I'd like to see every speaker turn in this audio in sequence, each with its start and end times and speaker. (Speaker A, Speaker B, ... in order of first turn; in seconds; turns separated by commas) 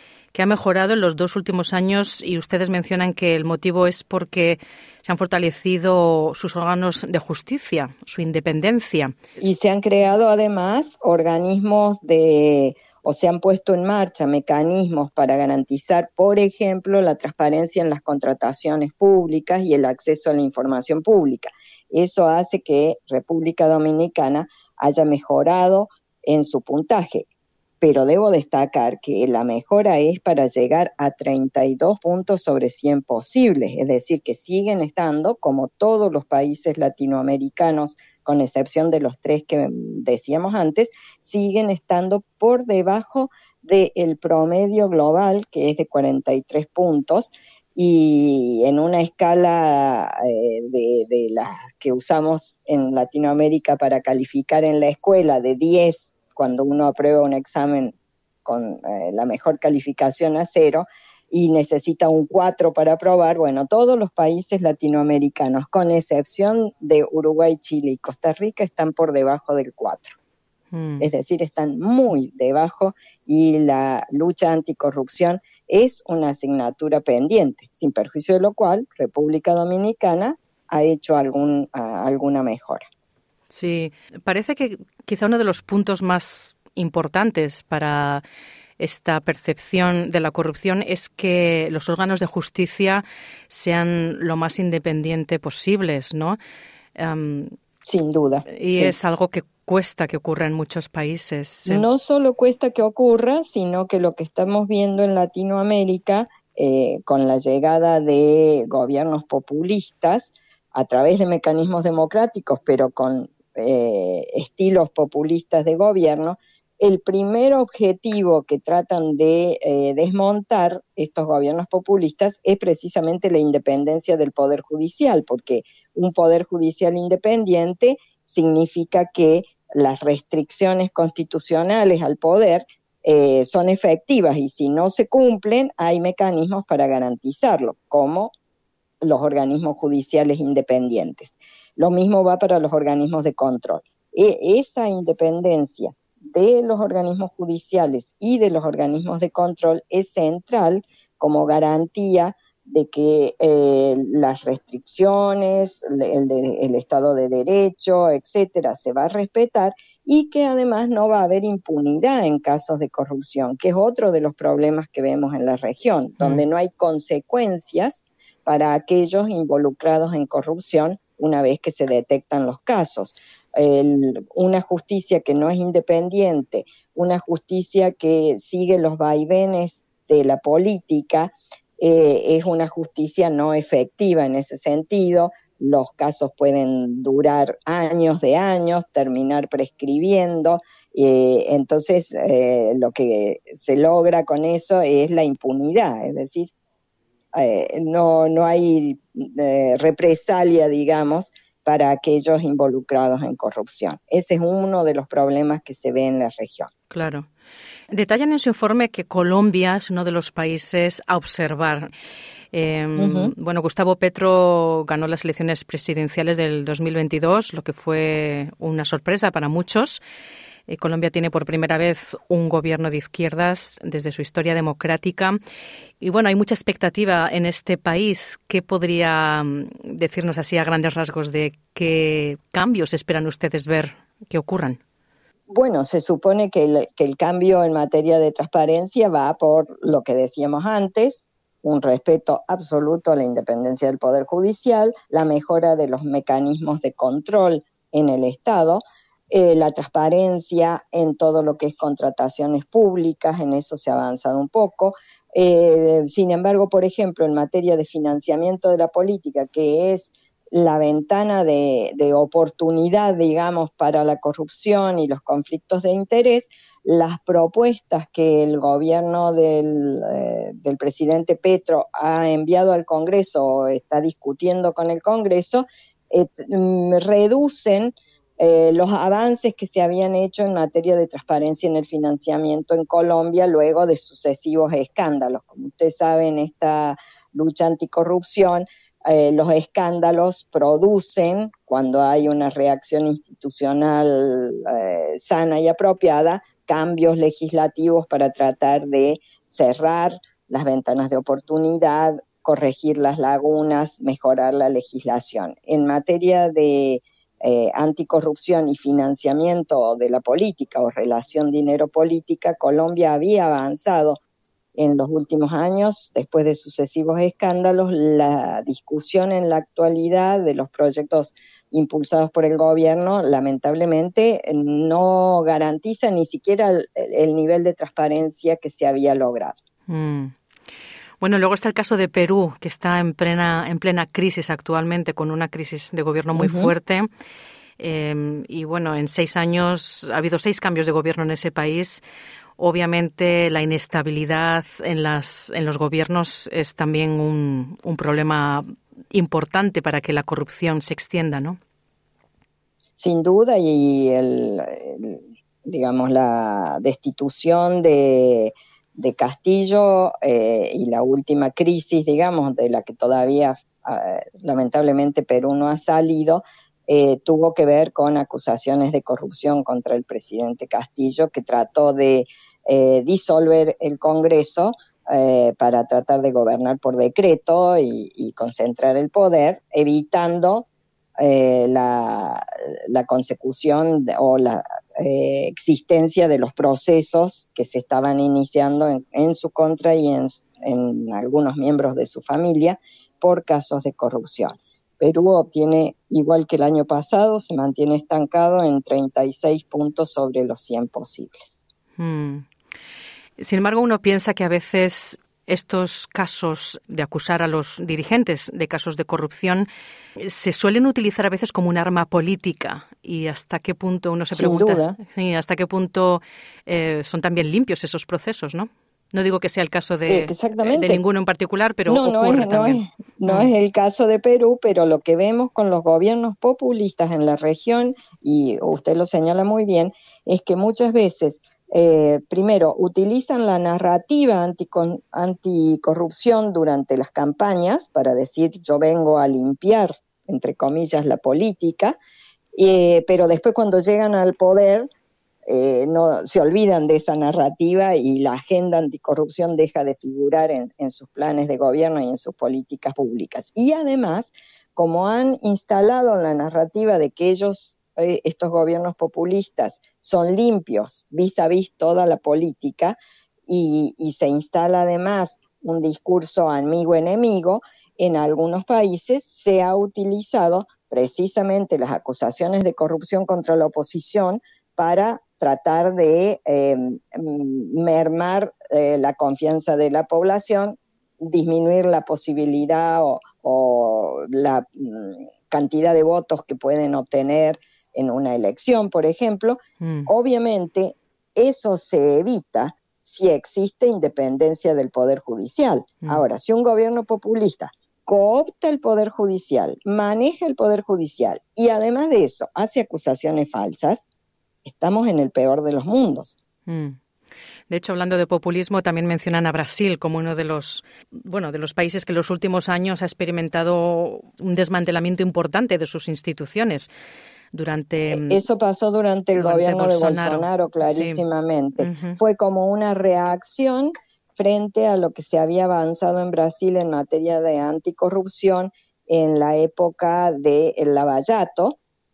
Speaker A: 0.3-9.1, Speaker B: 9.4-27.3, Speaker B: 27.8-70.2, Speaker A: 70.7-71.1, Speaker B: 71.0-82.8, Speaker A: 83.5-88.2, Speaker A: 88.8-96.4, Speaker A: 97.0-97.5, Speaker B: 97.8-99.0, Speaker A: 98.5-101.8, Speaker B: 101.7-138.3, Speaker B: 139.0-196.5, Speaker B: 197.3-206.7, Speaker A: 206.9-207.3, Speaker A: 207.9-211.9, Speaker A: 212.5-220.0, Speaker B: 213.0-213.3, Speaker A: 220.7-225.4, Speaker A: 226.0-234.8, Speaker B: 235.5-314.2, Speaker B: 314.8-329.6, Speaker A: 329.9-330.3, Speaker A: 331.2-337.1, Speaker B: 336.4-336.7, Speaker A: 337.8-342.0, Speaker A: 342.6-351.6, Speaker B: 353.0-380.7, Speaker B: 381.2-401.6, Speaker A: 402.0-402.5, Speaker A: 403.4-423.5, Speaker B: 414.3-415.0, Speaker B: 420.1-421.0, Speaker B: 421.9-442.0, Speaker B: 442.6-444.9, Speaker B: 445.5-504.1, Speaker A: 489.8-490.1, Speaker B: 504.6-506.4, Speaker A: 506.7-507.0, Speaker A: 507.7-516.9, Speaker A: 517.5-518.4, Speaker B: 518.1-531.8, Speaker A: 519.4-521.2, Speaker A: 521.8-522.2